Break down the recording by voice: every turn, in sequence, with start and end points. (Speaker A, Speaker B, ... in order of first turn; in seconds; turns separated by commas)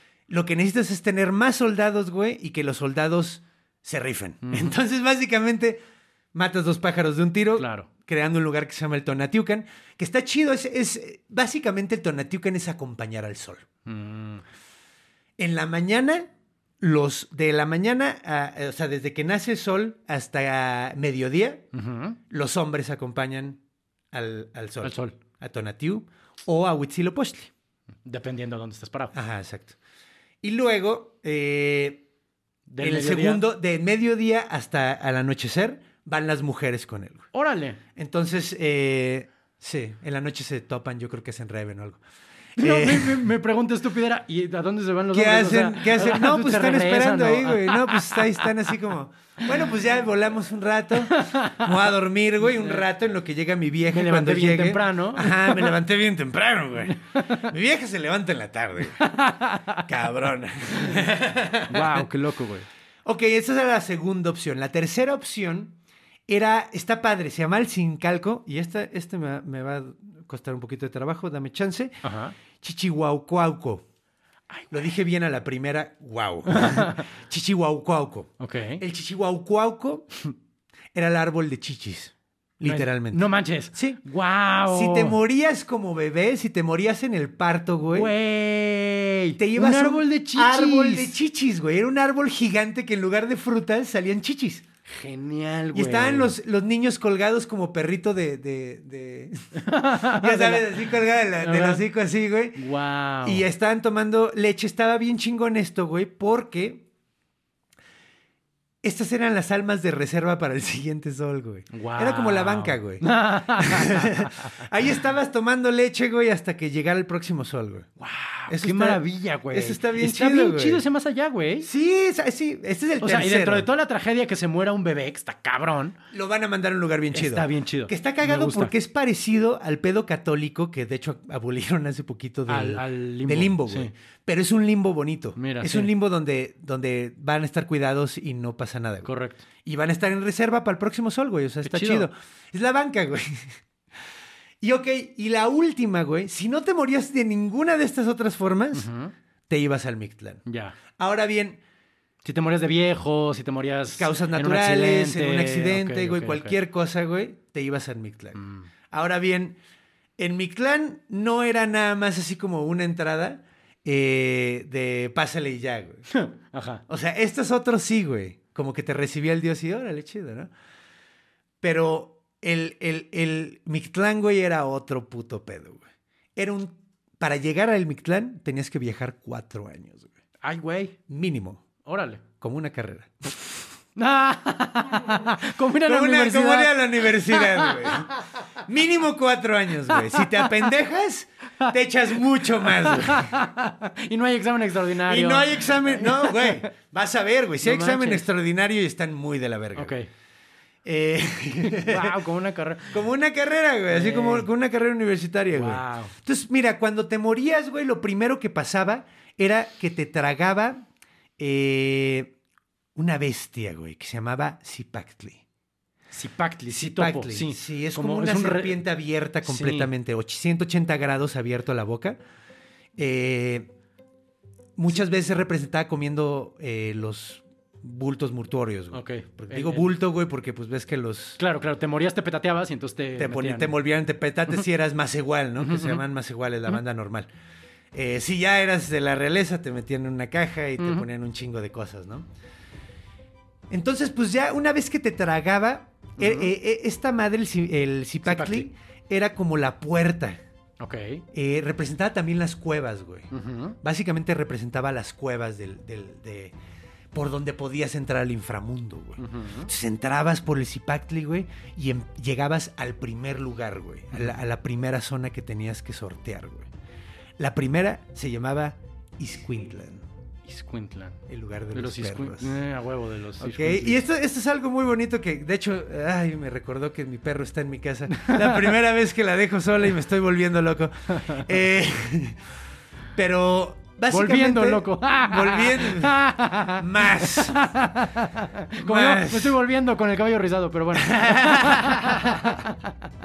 Speaker A: 0.3-5.8, Speaker B: 4.4-4.7, Speaker A: 6.3-13.7, Speaker B: 7.6-7.9, Speaker B: 13.8-14.4, Speaker A: 15.4-16.3, Speaker A: 16.8-21.6, Speaker B: 21.7-22.2, Speaker A: 22.3-23.6, Speaker A: 24.1-27.5, Speaker B: 24.8-25.1, Speaker B: 28.0-29.1, Speaker A: 29.1-29.8, Speaker A: 30.4-32.0, Speaker B: 32.7-33.4, Speaker A: 32.8-37.3, Speaker B: 37.3-37.8, Speaker A: 38.0-42.0, Speaker A: 42.6-43.3, Speaker B: 42.6-48.7, Speaker A: 45.1-59.0, Speaker B: 51.1-51.7, Speaker B: 52.4-52.8, Speaker B: 53.9-55.7, Speaker B: 56.9-57.4, Speaker B: 59.0-59.8, Speaker A: 59.8-62.0, Speaker B: 61.7-62.7, Speaker A: 63.0-65.7, Speaker A: 66.3-72.0, Speaker B: 72.0-72.3, Speaker A: 72.5-73.8, Speaker A: 74.7-80.3, Speaker B: 76.5-77.0, Speaker B: 78.4-78.8, Speaker A: 80.9-84.0, Speaker B: 82.6-85.2, Speaker A: 84.7-88.1, Speaker B: 87.9-91.2, Speaker A: 89.4-94.6, Speaker B: 94.9-96.3, Speaker A: 95.7-99.4, Speaker B: 99.6-100.8, Speaker A: 100.1-102.6, Speaker B: 101.4-101.8, Speaker B: 102.5-103.4, Speaker A: 103.2-106.8, Speaker A: 108.8-117.9, Speaker B: 111.7-114.4, Speaker B: 118.0-121.7, Speaker A: 118.5-120.8, Speaker A: 121.6-123.7, Speaker B: 123.0-125.9, Speaker A: 126.1-139.1, Speaker B: 127.1-128.7, Speaker B: 132.5-133.9, Speaker B: 135.4-135.9, Speaker B: 139.0-139.4, Speaker A: 139.6-143.6, Speaker B: 141.6-142.1, Speaker A: 144.6-148.9, Speaker B: 148.7-149.1, Speaker A: 149.5-150.4, Speaker B: 150.4-150.8, Speaker A: 150.9-151.6, Speaker B: 152.2-156.6, Speaker A: 153.9-159.6, Speaker B: 158.3-158.7, Speaker A: 160.2-166.1, Speaker B: 166.1-166.8, Speaker A: 166.9-170.5, Speaker A: 171.6-175.8, Speaker A: 176.3-180.1, Speaker B: 180.4-180.9, Speaker A: 181.1-181.6, Speaker B: 181.8-182.2, Speaker A: 182.4-183.6, Speaker B: 183.9-188.0, Speaker A: 185.8-188.1, Speaker A: 188.6-193.3, Speaker B: 192.7-196.7, Speaker A: 195.0-199.9, Speaker B: 197.6-198.2, Speaker B: 199.8-200.1, Speaker A: 200.8-202.1, Speaker B: 201.6-203.0, Speaker A: 202.9-210.8, Speaker B: 203.9-204.5, Speaker B: 205.5-206.1, Speaker A: 211.4-212.3, Speaker A: 212.9-215.4, Speaker B: 216.1-218.8, Speaker A: 216.7-222.2, Speaker B: 219.4-219.9, Speaker A: 223.0-223.7, Speaker A: 224.8-231.4, Speaker B: 228.9-229.9, Speaker B: 231.4-233.7, Speaker A: 233.2-237.3, Speaker B: 235.6-236.0, Speaker A: 237.9-242.3, Speaker B: 240.8-241.0, Speaker A: 243.7-250.4, Speaker B: 246.2-246.5, Speaker B: 248.2-248.7, Speaker B: 250.8-251.2, Speaker A: 251.3-253.3, Speaker B: 253.3-253.8, Speaker A: 253.8-256.5, Speaker A: 257.1-266.7, Speaker B: 259.2-259.7, Speaker A: 267.4-270.0, Speaker B: 270.5-271.2, Speaker A: 271.3-272.6, Speaker B: 271.7-274.0, Speaker A: 273.4-282.4, Speaker B: 278.1-278.7, Speaker A: 283.1-286.2, Speaker B: 284.1-292.9, Speaker A: 286.8-287.7, Speaker A: 288.8-289.6, Speaker A: 290.9-292.4